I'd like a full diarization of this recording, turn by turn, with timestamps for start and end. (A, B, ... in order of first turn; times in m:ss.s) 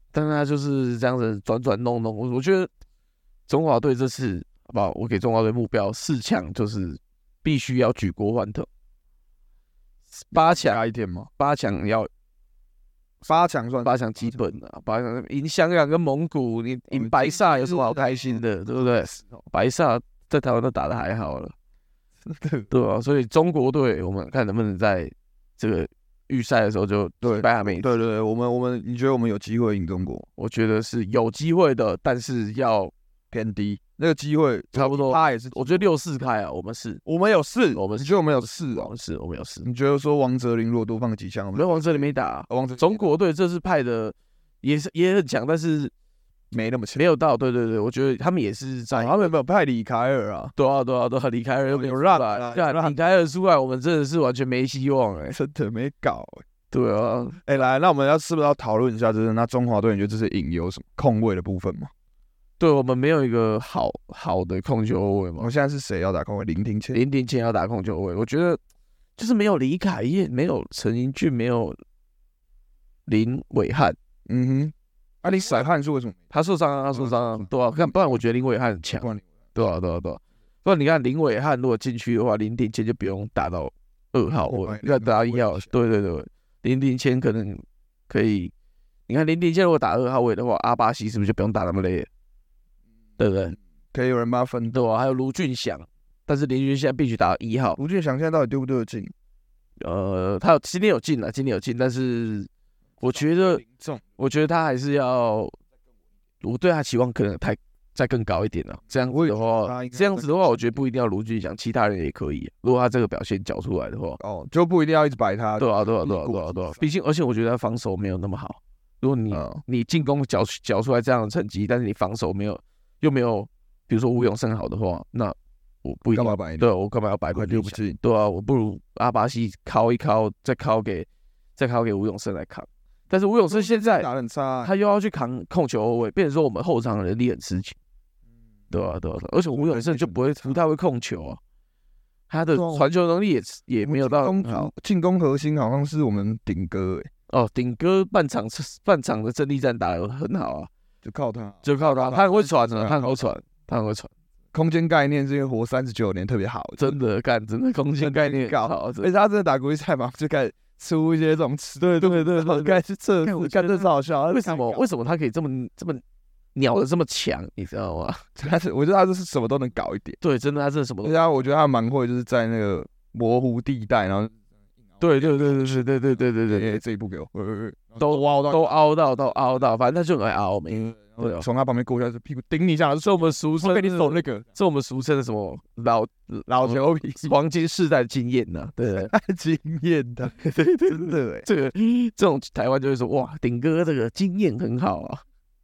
0:00.1-0:02.7 A
0:03.5-0:08.7 A
0:10.1-0:10.8 A
0:10.3-0:11.3 B
0:11.4-0:12.1 A
0:13.2-0:14.4 B
0:13.8-0:21.5 A
0:16.9-0:19.4 B
0:22.2-0:22.7 B
0:22.7-0:27.9 A
0:27.2-0:30.3 B
0:30.4-0:32.9 A
0:33.3-0:35.9 B
0:34.7-0:37.0 A
0:37.0-0:38.9 B
0:37.7-0:39.6 A
0:39.6-0:43.1 B
0:41.5-0:45.9 A
0:46.5-0:47.1 B
0:47.0-0:49.3 A
0:48.9-0:50.5 B
0:50.6-0:55.4 A
0:51.7-0:53.0 B
0:55.3-0:56.4 B
0:56.7-0:57.4 A
0:57.4-1:01.9 B
1:02.6-1:05.5 A
1:05.4-1:07.0 B
1:06.9-1:08.6 A
1:09.2-1:11.8 A
1:13.0-1:14.0 A
1:14.3-1:16.2 B
1:15.3-1:15.6 A
1:16.3-1:28.5 A
1:16.9-1:18.2 B
1:18.9-1:19.2 B
1:24.5-1:25.7 B
1:29.1-1:32.1 A
1:33.2-1:33.6 A
1:33.9-1:34.7 B
1:34.7-1:37.8 A
1:37.8-1:39.1 B
1:39.8-1:43.6 A
1:43.0-1:44.0 B
1:44.2-1:45.6 A
1:46.4-1:54.2 A
1:49.1-1:50.6 B
1:54.2-1:56.8 B
1:55.6-2:14.1 A
1:59.3-1:59.6 B
2:06.1-2:06.7 B
2:07.3-2:08.0 B
2:13.5-2:14.7 B
2:14.6-2:17.8 A
2:18.7-2:21.4 A
2:19.6-2:20.6 B
2:22.3-2:24.7 A
2:22.5-2:22.9 B
2:23.8-2:27.1 B
2:27.3-2:30.7 A
2:31.0-2:33.3 B
2:31.6-2:34.1 A
2:34.5-2:37.0 B
2:36.8-2:39.1 A
2:38.0-2:44.9 B
2:41.8-2:46.0 A
2:46.5-2:48.2 A
2:48.4-2:50.2 B
2:50.2-2:51.2 A
2:51.0-2:54.3 B
2:55.0-2:56.8 A
2:55.1-2:55.8 B
2:56.5-2:58.7 B
2:58.0-3:01.4 A
3:00.7-3:04.4 B
3:03.0-3:09.1 A
3:06.5-3:07.3 B
3:09.0-3:10.3 B
3:10.3-3:15.2 A
3:10.9-3:11.5 B